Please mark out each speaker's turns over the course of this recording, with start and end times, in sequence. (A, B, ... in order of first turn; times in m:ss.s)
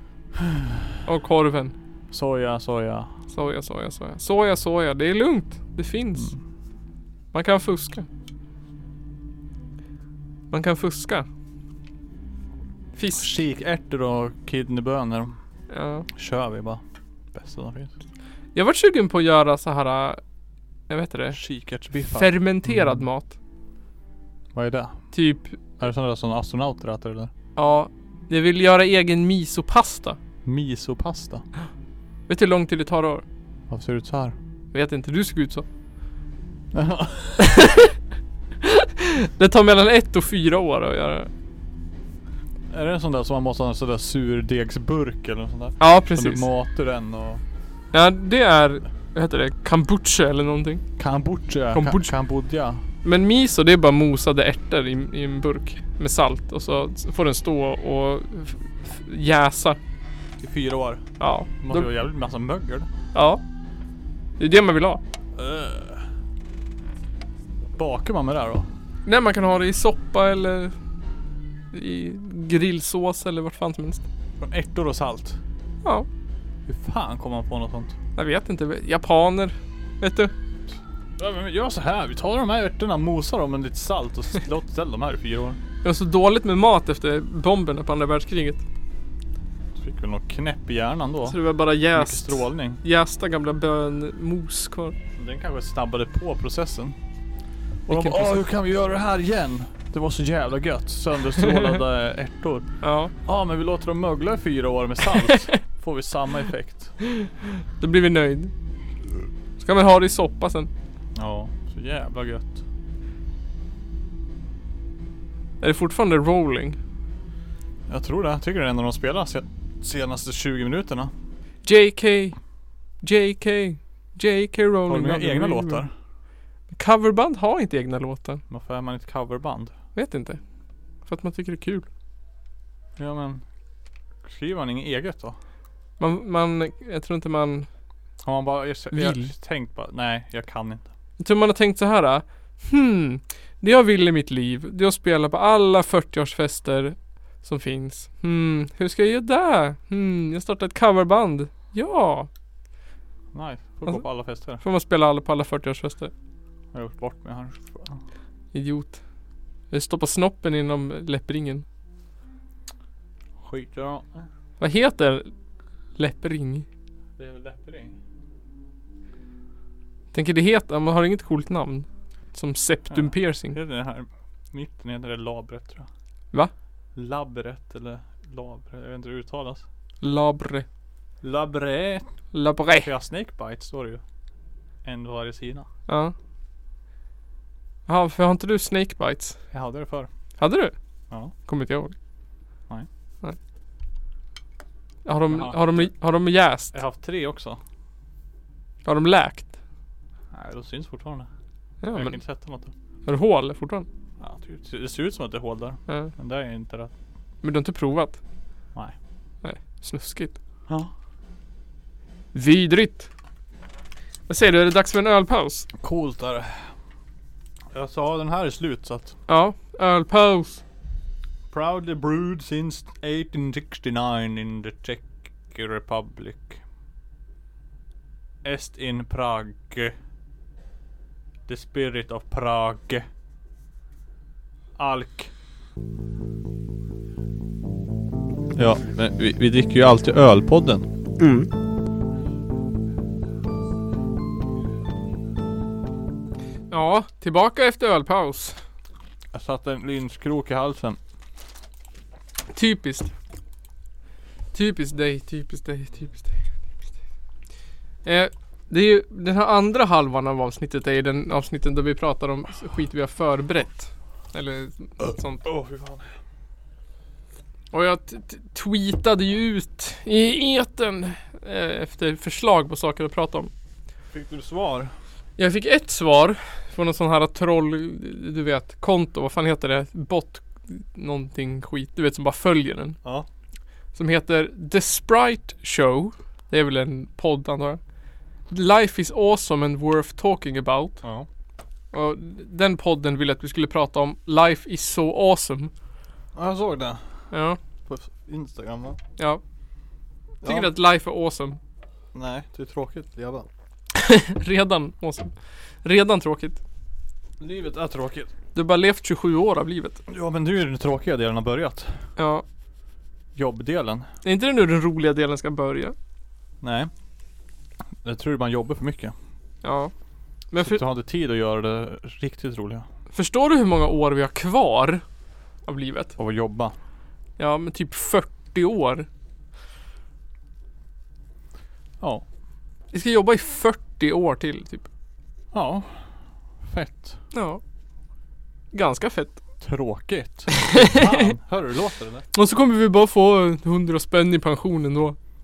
0:00.4-0:00.9 A
0:01.0-0:01.7 B
0:02.1-0:03.1 A
0:03.3-0:06.3 B
0:07.3-0:08.0 B
0:10.5-0:11.2 B
0:13.0-0:13.3 B
0:13.1-0:15.4 A
0:15.7-0:16.1 B
0:16.1-0:16.8 A
0:17.3-0:17.9 A
0:18.5-0:20.2 B
0:20.9-0:21.4 B
0:21.3-0:23.0 A
0:22.0-0:23.4 B
0:24.5-0:25.0 A
0:25.1-0:25.6 B
0:25.8-0:27.3 A
0:27.6-0:30.2 B
0:30.4-0:31.4 A
0:32.3-0:33.2 B
0:33.7-0:34.4 A
0:34.7-0:35.6 B
0:36.7-0:37.5 A
0:37.4-0:37.9 B
0:38.6-0:41.3 B
0:42.7-0:47.4 A
0:45.8-0:46.4 B
0:47.9-0:50.8 B
0:51.0-0:52.8 A
0:51.7-0:52.1 B
0:53.0-0:59.8 B
1:00.4-1:01.1 A
1:01.2-1:01.9 B
1:01.6-1:02.9 A
1:03.1-1:03.4 B
1:04.4-1:05.0 B
1:05.4-1:06.1 A
1:07.8-1:08.7 A
1:09.0-1:10.7 B
1:11.7-1:14.0 B
1:14.4-1:15.4 A
1:16.6-1:17.9 A
1:18.2-1:20.3 B
1:21.2-1:25.6 A
1:25.8-1:28.6 B
1:29.7-1:31.4 A
1:31.2-1:35.0 B
1:31.9-1:32.8 A
1:35.2-1:37.0 A
1:37.9-1:42.6 A
1:37.9-1:38.4 B
1:42.8-1:43.1 B
1:43.2-1:47.0 A
1:47.1-1:48.5 B
1:49.6-1:50.7 B
1:51.1-1:52.6 A
1:55.6-1:56.8 B
1:57.9-2:01.1 A
2:01.6-2:02.4 B
2:03.0-2:05.9 B
2:04.9-2:05.9 A
2:06.7-2:08.4 B
2:08.5-2:09.7 A
2:09.9-2:10.4 B
2:11.0-2:11.9 B
2:13.0-2:13.4 A
2:14.2-2:15.4 A
2:16.0-2:17.7 B
2:18.2-2:20.9 A
2:18.9-2:19.3 B
2:21.2-2:32.3 B
2:33.3-2:34.6 A
2:34.6-2:36.1 B
2:36.7-2:38.0 A
2:38.5-2:39.0 B
2:39.7-2:41.6 B
2:43.4-2:44.3 A
2:44.6-2:45.3 B
2:46.0-2:46.6 B
2:47.2-2:48.0 A
2:50.1-2:53.6 B
2:52.9-2:55.9 A
2:56.9-2:59.6 A
3:00.0-3:00.6 B
3:01.2-3:02.1 A
3:02.3-3:02.9 B
3:02.8-3:04.0 A
3:04.8-3:05.7 A
3:05.9-3:06.1 B
3:07.9-3:09.4 B
3:09.5-3:10.1 A
3:10.4-3:10.7 B
3:11.4-3:11.9 B
3:15.0-3:16.7 B
3:15.3-3:15.9 A
3:16.7-3:17.6 A
3:18.8-3:19.5 B
3:20.3-3:21.3 A
3:21.8-3:22.2 B
3:21.9-3:22.7 A
3:23.0-3:23.9 B
3:24.2-3:26.9 A
3:27.4-3:28.2 B
3:29.4-3:30.4 B
3:32.3-3:33.1 B
3:34.3-3:35.7 B
3:35.8-3:36.7 A
3:37.7-3:39.2 A
3:39.3-3:40.6 B
3:41.5-3:46.6 A
3:48.4-3:49.9 A
3:51.5-3:53.1 A
3:54.8-3:55.3 A
3:58.5-4:00.9 A
4:06.7-4:08.6 B
4:09.3-4:11.0 A
4:12.5-4:13.1 B
4:14.5-4:16.4 B
4:18.0-4:25.4 B
4:25.0-4:26.1 A
4:27.7-4:33.5 B
4:34.1-4:34.9 A
4:35.4-4:43.0 B
4:43.9-4:47.8 B
4:48.5-4:51.0 B
4:51.0-4:51.3 A
4:51.9-4:55.7 B
4:56.4-4:57.2 A
4:57.3-4:57.6 B
4:57.9-4:59.0 A
5:00.4-5:00.7 A
5:00.4-5:01.6 B
5:02.1-5:03.5 A
5:03.9-5:06.6 B
5:07.4-5:08.3 A
5:08.5-5:10.0 B
5:10.1-5:12.0 A
5:12.2-5:12.4 B
5:13.4-5:14.1 A
5:14.2-5:15.9 B
5:16.6-5:16.9 A
5:18.0-5:19.1 A
5:19.6-5:19.9 B
5:20.5-5:20.8 B
5:20.6-5:22.9 A
5:23.1-5:25.0 B
5:25.6-5:26.1 B
5:26.2-5:26.7 A
5:27.4-5:29.1 B
5:32.0-5:32.2 A
5:32.9-5:34.9 B
5:35.5-5:36.1 A
5:36.6-5:37.2 A
5:37.3-5:37.6 B
5:38.7-5:39.4 B
5:39.6-5:42.2 A
5:40.6-5:41.3 B
5:42.3-5:45.2 B